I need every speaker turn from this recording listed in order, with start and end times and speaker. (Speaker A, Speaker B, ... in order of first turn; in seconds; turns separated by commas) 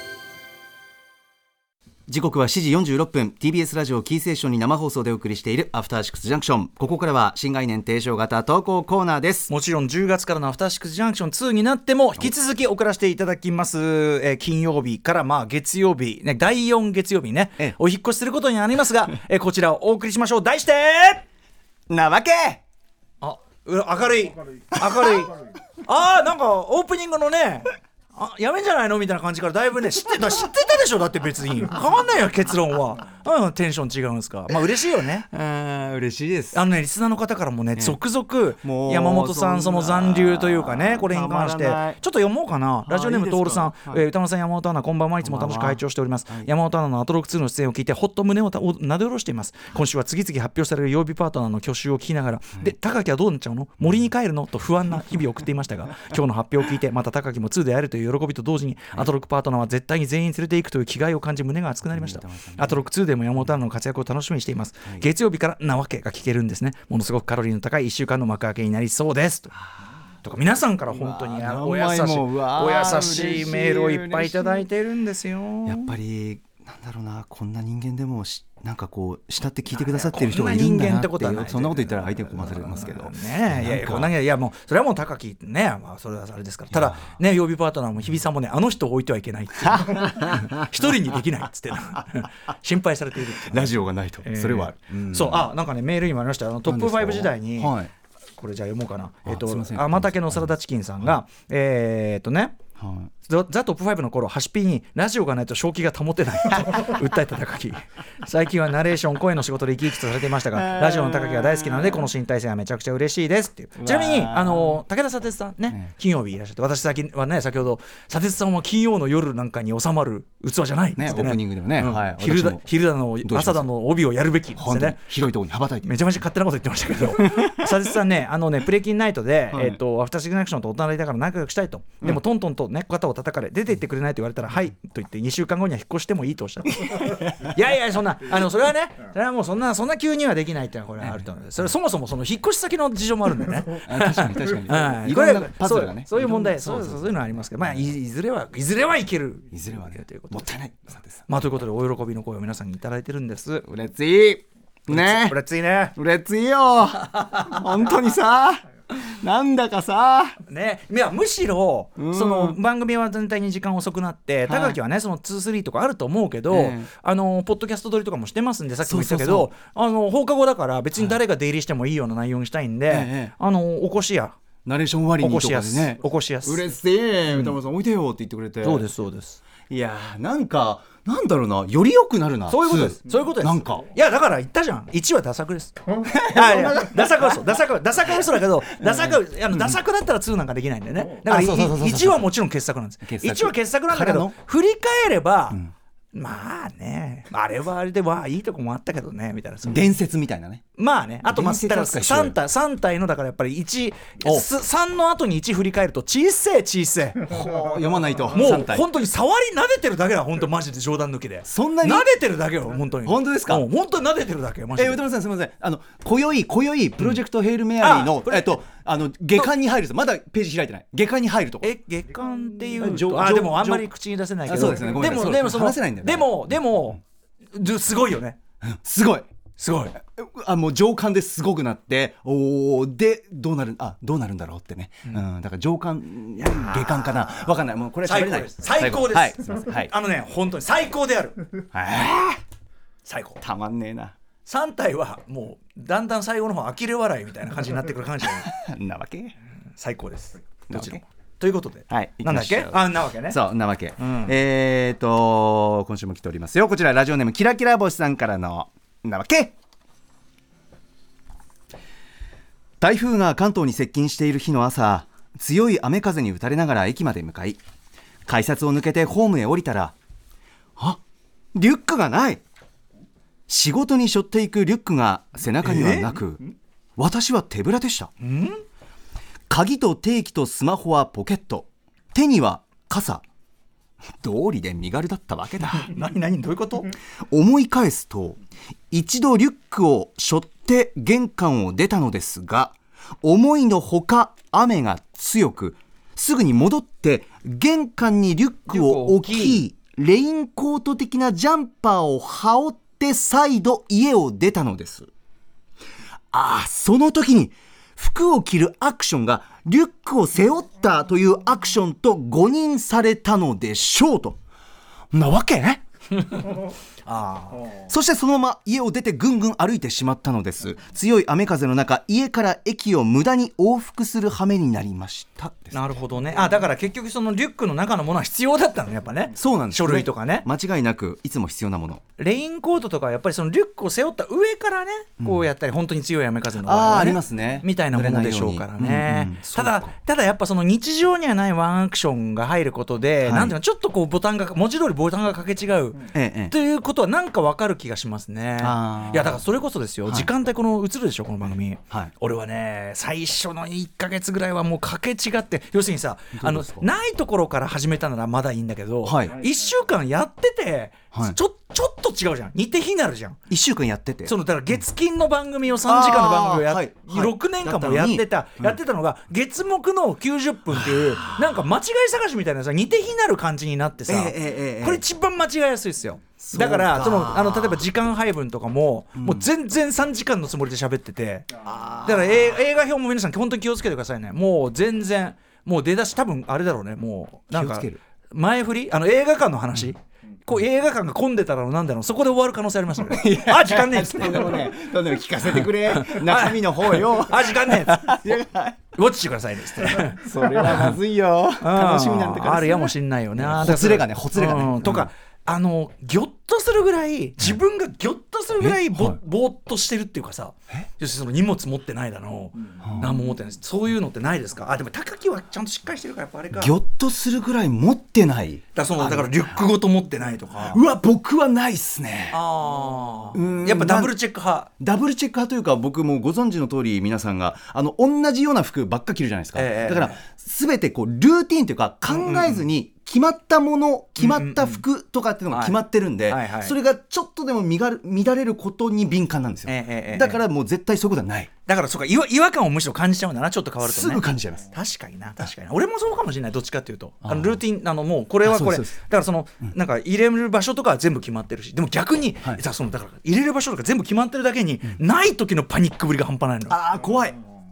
Speaker A: 2.1-9.5, Speaker B: 9.5-21.2, Speaker A: 21.9-22.6, Speaker B: 23.2-35.3, Speaker A: 24.8-25.3, Speaker A: 35.3-36.6, Speaker B: 36.5-69.5, Speaker A: 38.6-42.0, Speaker A: 42.9-44.0, Speaker A: 45.2-46.5, Speaker A: 61.9-62.9, Speaker B: 70.2-75.9, Speaker A: 70.9-74.7, Speaker A: 75.7-84.1, Speaker B: 79.8-97.8, Speaker A: 86.7-87.0, Speaker A: 89.7-90.7, Speaker A: 93.5-95.5, Speaker A: 96.7-97.9, Speaker B: 98.4-102.6, Speaker A: 99.3-100.5, Speaker A: 102.8-103.1, Speaker B: 103.2-125.0, Speaker A: 110.5-112.1, Speaker A: 113.8-114.8, Speaker A: 121.0-122.7, Speaker A: 123.2-123.6, Speaker A: 124.6-125.9, Speaker B: 125.8-150.5, Speaker A: 127.2-127.8, Speaker A: 136.8-137.4, Speaker A: 143.8-147.0, Speaker A: 149.5-151.2, Speaker B: 151.3-153.7, Speaker A: 153.7-155.4, Speaker B: 154.9-156.0, Speaker A: 156.0-160.4, Speaker B: 157.2-157.9, Speaker B: 160.4-174.4, Speaker A: 162.0-162.6, Speaker A: 164.5-164.8, Speaker A: 166.5-166.9, Speaker A: 168.8-169.5, Speaker A: 172.9-173.3, Speaker A: 174.7-178.9, Speaker B: 175.2-176.7, Speaker B: 177.3-177.6, Speaker B: 178.6-179.4, Speaker A: 179.7-183.9, Speaker B: 182.5-195.6, Speaker A: 186.0-187.5, Speaker A: 188.7-189.7, Speaker A: 191.2-192.3, Speaker A: 193.1-194.4, Speaker B: 196.1-199.9, Speaker A: 199.7-200.6, Speaker B: 200.8-207.3, Speaker A: 201.3-202.4, Speaker A: 207.3-208.9, Speaker B: 208.3-215.0, Speaker A: 211.5-212.1, Speaker A: 213.1-213.7, Speaker A: 214.8-221.7, Speaker B: 217.8-218.6, Speaker B: 221.6-227.0, Speaker A: 222.8-223.9, Speaker A: 224.5-226.3, Speaker B: 227.5-228.4, Speaker A: 228.6-229.3, Speaker B: 229.6-230.0, Speaker A: 230.1-239.9, Speaker B: 236.4-237.2, Speaker B: 238.0-241.4, Speaker A: 241.7-242.4, Speaker B: 243.1-243.4, Speaker A: 243.4-244.1, Speaker B: 244.5-248.5, Speaker A: 248.3-249.3, Speaker B: 249.8-253.4, Speaker A: 250.7-251.0, Speaker A: 251.9-259.5, Speaker B: 254.0-254.3, Speaker A: 262.8-267.6, Speaker A: 268.3-269.9, Speaker A: 271.6-272.4, Speaker A: 273.5-276.4, Speaker B: 275.6-276.1, Speaker A: 277.0-278.1, Speaker B: 278.2-278.6, Speaker A: 279.5-283.2, Speaker A: 284.2-285.9, Speaker B: 285.8-286.9, Speaker A: 287.3-288.4, Speaker A: 288.9-305.1, Speaker B: 298.7-299.6, Speaker A: 306.3-314.4, Speaker A: 315.1-315.8, Speaker B: 316.1-317.7, Speaker A: 317.9-325.8, Speaker B: 325.7-330.5, Speaker A: 329.4-332.0, Speaker B: 332.2-363.4, Speaker A: 335.2-335.5, Speaker A: 336.6-339.9, Speaker A: 343.2-343.6, Speaker A: 346.1-346.5, Speaker A: 348.6-349.4, Speaker A: 350.1-350.3, Speaker A: 356.4-356.9, Speaker A: 359.0-359.4, Speaker A: 363.5-364.3, Speaker B: 364.3-381.5, Speaker A: 365.9-368.8, Speaker A: 370.7-371.5, Speaker A: 374.1-375.0, Speaker A: 376.4-377.8, Speaker A: 379.2-379.5, Speaker A: 381.6-382.6, Speaker B: 382.0-394.7, Speaker A: 387.5-388.0, Speaker A: 393.1-398.9, Speaker B: 395.6-398.4, Speaker B: 398.9-401.0, Speaker A: 399.8-405.1, Speaker B: 401.6-416.8, Speaker A: 408.6-409.2, Speaker A: 412.8-413.1, Speaker A: 416.5-419.6, Speaker B: 418.8-420.8, Speaker A: 420.6-422.4, Speaker B: 422.3-424.7, Speaker A: 423.3-424.2, Speaker A: 424.8-441.5, Speaker B: 429.6-430.2, Speaker B: 432.1-432.6, Speaker B: 434.2-434.8, Speaker B: 435.5-436.7, Speaker B: 439.7-440.4, Speaker B: 441.7-456.8, Speaker A: 443.9-444.7, Speaker A: 447.2-447.6, Speaker A: 448.4-448.9, Speaker A: 456.7-457.4